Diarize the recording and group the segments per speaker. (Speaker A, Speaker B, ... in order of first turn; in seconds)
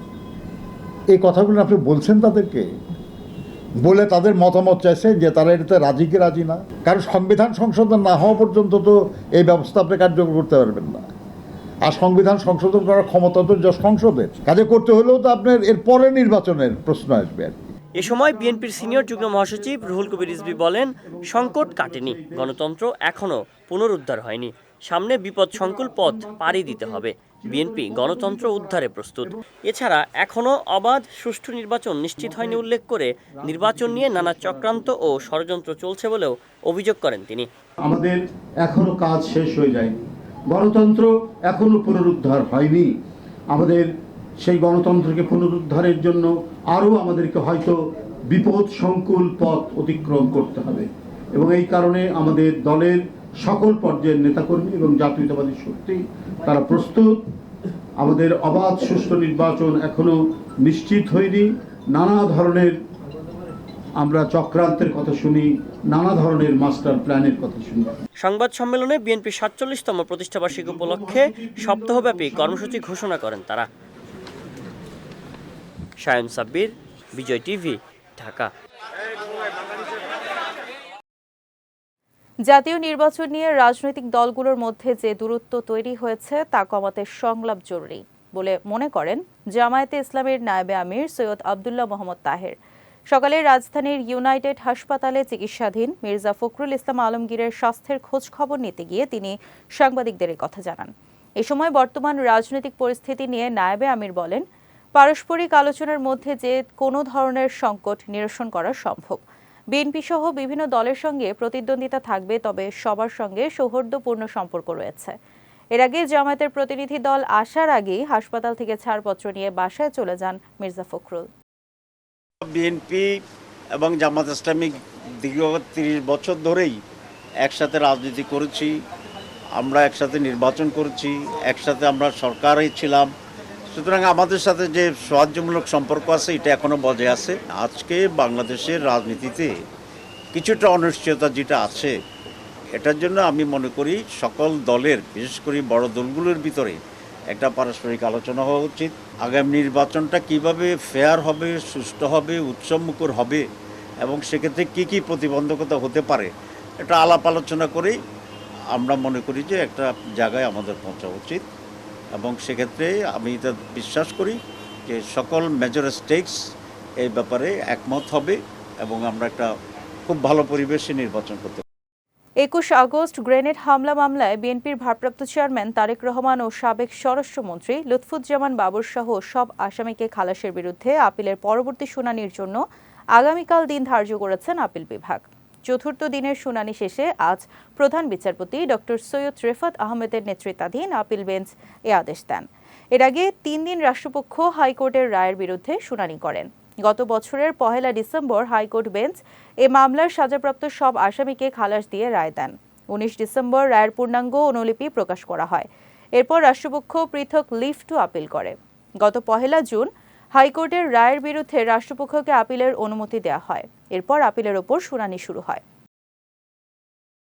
Speaker A: 1.1-2.7, 3.8-11.1, 11.8-17.6
Speaker B: 18.0-22.6, 25.5-29.4, 32.2-32.7, 33.4-35.2, 37.8-42.9, 43.5-57.3, 58.0-62.8, 64.0-67.9, 70.5-72.8
Speaker C: 18.0-37.5, 68.2-73.7, 76.0-78.5
Speaker D: 82.5-92.6, 93.1-104.4, 105.0-115.2, 115.8-121.3, 172.4-182.6, 183.2-215.6
Speaker E: 122.4-123.1, 123.7-126.8, 127.4-128.7, 129.6-133.1, 133.7-139.5, 140.3-141.9, 142.7-146.8, 147.3-153.4, 154.0-156.3, 156.8-158.0, 158.7-161.4, 162.1-166.4, 167.0-169.5, 170.1-171.6